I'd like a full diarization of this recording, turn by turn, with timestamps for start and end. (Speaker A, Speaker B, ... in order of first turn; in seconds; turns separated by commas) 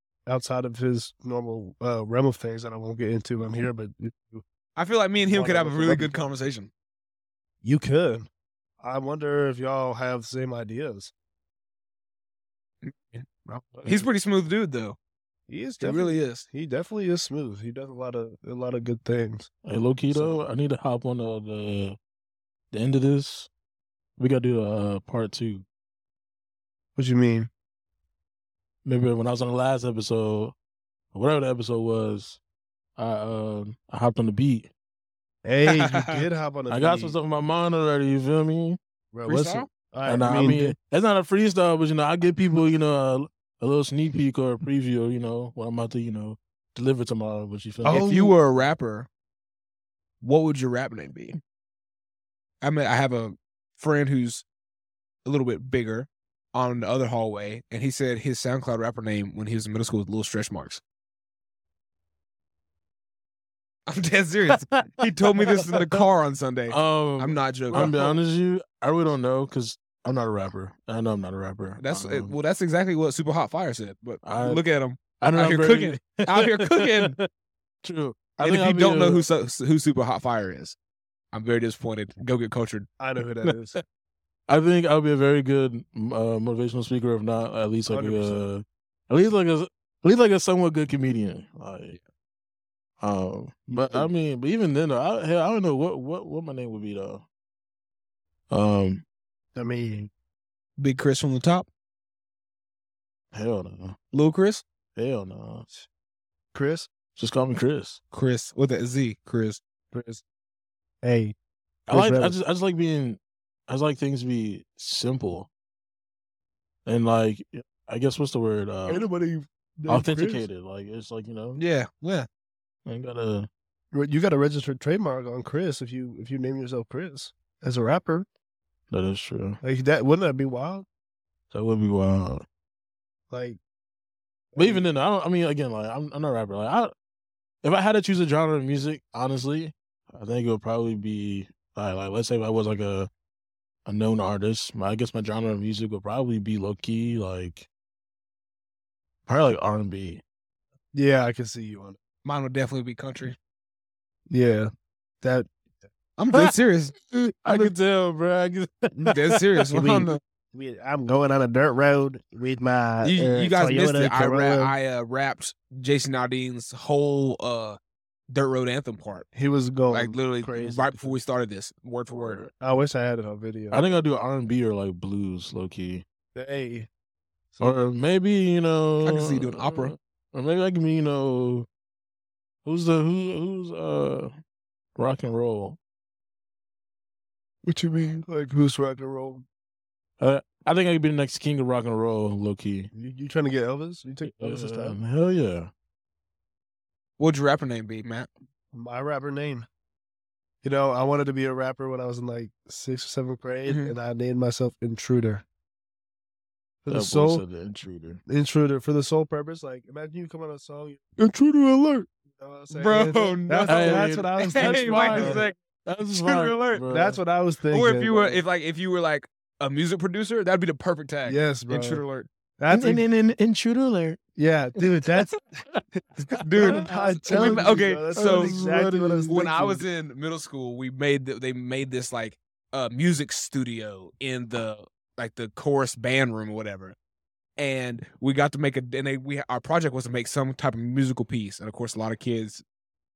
Speaker A: 0.3-4.4, Speaker B: 4.8-6.7, Speaker A: 5.3-6.2, Speaker A: 7.6-8.3, Speaker A: 8.8-11.1, Speaker B: 12.8-15.0, Speaker A: 13.5-14.1, Speaker A: 15.5-19.5, Speaker B: 15.8-16.5, Speaker C: 19.6-22.0, Speaker A: 20.1-20.4, Speaker C: 22.7-23.5, Speaker C: 24.2-25.7, Speaker A: 27.0-27.5, Speaker C: 28.9-30.6, Speaker C: 31.1-32.4, Speaker C: 33.0-34.7, Speaker A: 35.5-37.2, Speaker B: 35.7-36.2, Speaker C: 36.7-38.8, Speaker A: 39.1-40.8, Speaker B: 39.2-39.7, Speaker C: 40.0-48.1, Speaker A: 47.8-48.3, Speaker B: 47.9-49.1, Speaker B: 50.2-51.4, Speaker B: 52.6-54.5, Speaker B: 55.2-60.8, Speaker B: 63.9-68.0, Speaker C: 66.7-72.3, Speaker A: 67.7-68.2, Speaker B: 71.8-77.2, Speaker C: 74.2-74.6, Speaker C: 75.2-77.3, Speaker C: 77.8-79.2, Speaker B: 78.4-80.8, Speaker B: 81.3-82.9, Speaker A: 83.0-83.8, Speaker C: 84.5-92.0, Speaker A: 87.9-88.4, Speaker C: 93.0-97.3, Speaker A: 93.7-94.1, Speaker C: 98.5-99.0, Speaker A: 99.5-100.1, Speaker B: 100.8-101.7, Speaker C: 103.3-104.0, Speaker B: 104.1-104.6, Speaker C: 105.0-105.7, Speaker A: 106.5-106.9, Speaker C: 107.2-108.0, Speaker B: 108.1-109.6, Speaker A: 109.9-110.2, Speaker A: 111.0-111.3, Speaker A: 111.9-112.3, Speaker C: 111.9-115.5, Speaker C: 116.8-119.0, Speaker A: 118.9-120.5, Speaker C: 119.9-121.6, Speaker B: 121.6-122.3, Speaker C: 122.9-123.5, Speaker A: 123.9-128.3, Speaker C: 128.9-129.6, Speaker A: 129.6-130.9, Speaker C: 131.5-132.5, Speaker A: 133.3-133.6, Speaker A: 134.5-134.8, Speaker C: 134.6-136.9, Speaker C: 137.6-143.1, Speaker C: 143.9-147.7, Speaker C: 149.3-150.2, Speaker A: 150.9-152.0, Speaker B: 152.2-153.4, Speaker A: 154.3-154.7, Speaker A: 155.2-155.5, Speaker B: 156.2-156.9, Speaker C: 157.1-159.3, Speaker B: 159.1-160.2, Speaker A: 159.7-164.8, Speaker B: 163.0-167.8, Speaker B: 168.3-169.3, Speaker A: 169.3-171.2, Speaker B: 169.9-172.4, Speaker C: 172.1-172.5, Speaker A: 172.6-174.0, Speaker C: 173.7-176.1, Speaker A: 176.3-176.9, Speaker A: 177.5-177.8, Speaker C: 177.6-181.7, Speaker B: 179.0-179.9, Speaker C: 182.7-184.3, Speaker C: 185.0-185.8, Speaker A: 187.6-189.4, Speaker C: 190.2-192.9, Speaker A: 192.9-195.0, Speaker C: 194.2-195.7, Speaker B: 197.2-198.3, Speaker A: 198.7-199.7, Speaker A: 200.6-205.4, Speaker B: 203.7-203.9, Speaker A: 206.8-207.4, Speaker C: 206.9-208.2, Speaker A: 208.3-215.5, Speaker B: 212.7-215.6, Speaker C: 213.7-217.2, Speaker B: 216.1-216.8, Speaker A: 216.9-218.4, Speaker B: 217.7-222.3, Speaker A: 221.2-222.0, Speaker A: 222.6-223.1, Speaker C: 222.7-224.2, Speaker A: 224.4-225.4, Speaker B: 226.3-228.5, Speaker C: 226.6-229.4, Speaker A: 226.6-229.8, Speaker B: 229.3-236.9, Speaker B: 237.6-242.6